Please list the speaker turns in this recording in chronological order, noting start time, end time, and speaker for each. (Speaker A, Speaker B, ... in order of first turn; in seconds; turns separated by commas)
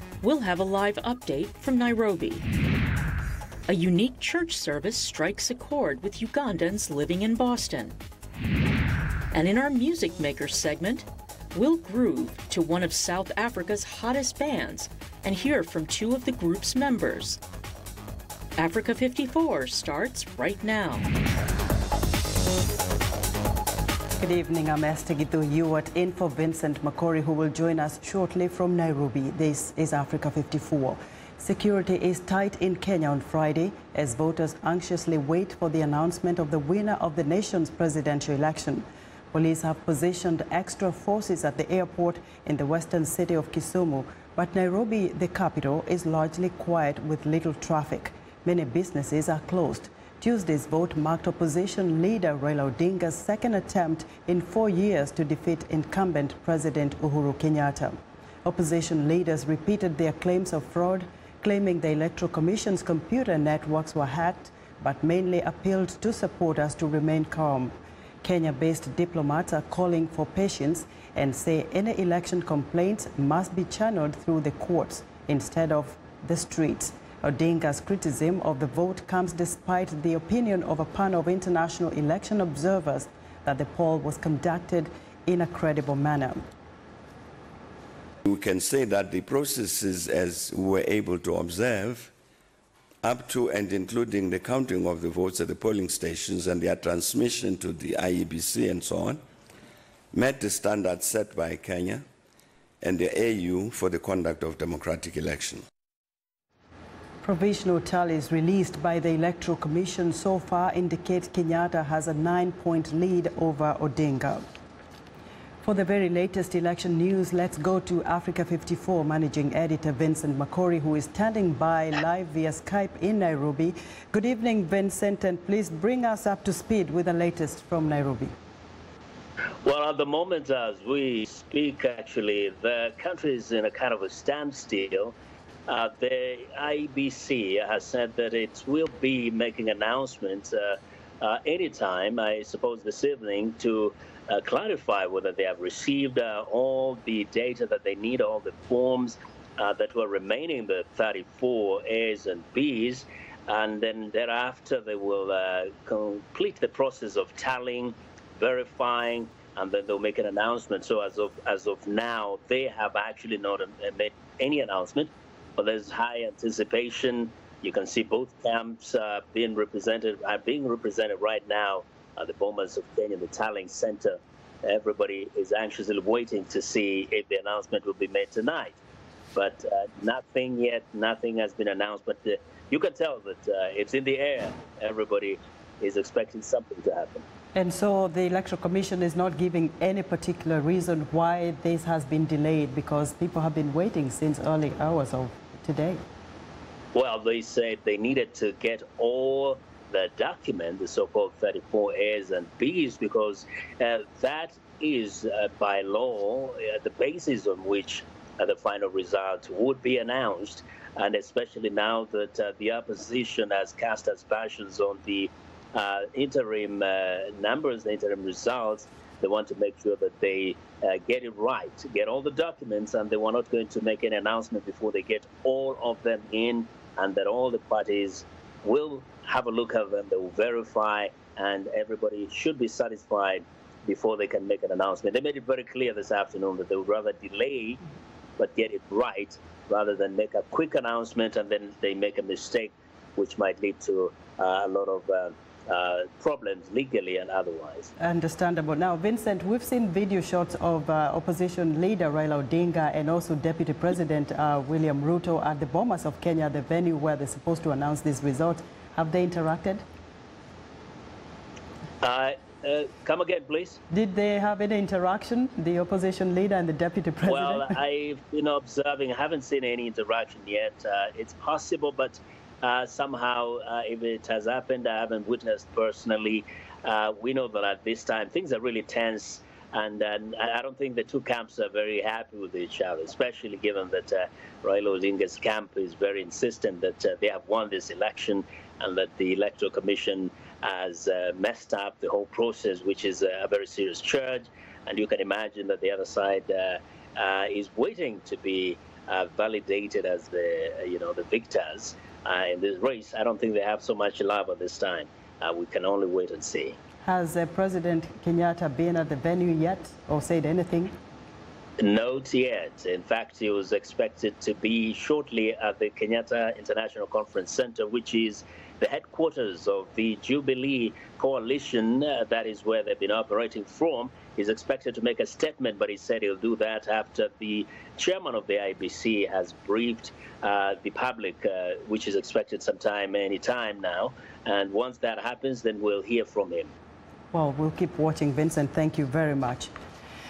Speaker A: 0.2-2.5, Speaker A: 3.7-8.0, Speaker A: 9.3-17.4, Speaker A: 18.6-21.1, Speaker B: 24.2-86.4, Speaker C: 88.2-92.1, Speaker C: 93.0-99.2, Speaker C: 100.1-102.0, Speaker C: 102.8-105.6, Speaker B: 107.2-114.5, Speaker B: 115.6-128.3, Speaker D: 129.7-135.2, Speaker D: 135.7-178.8, Speaker D: 179.3-187.2, Speaker B: 187.6-196.0, Speaker D: 196.9-237.8, Speaker D: 238.4-247.9, Speaker B: 248.0-259.8, Speaker D: 262.0-263.8, Speaker B: 263.9-267.7, Speaker D: 267.3-306.8, Speaker B: 307.0-310.9, Speaker D: 311.8-336.7, Speaker B: 337.3-339.7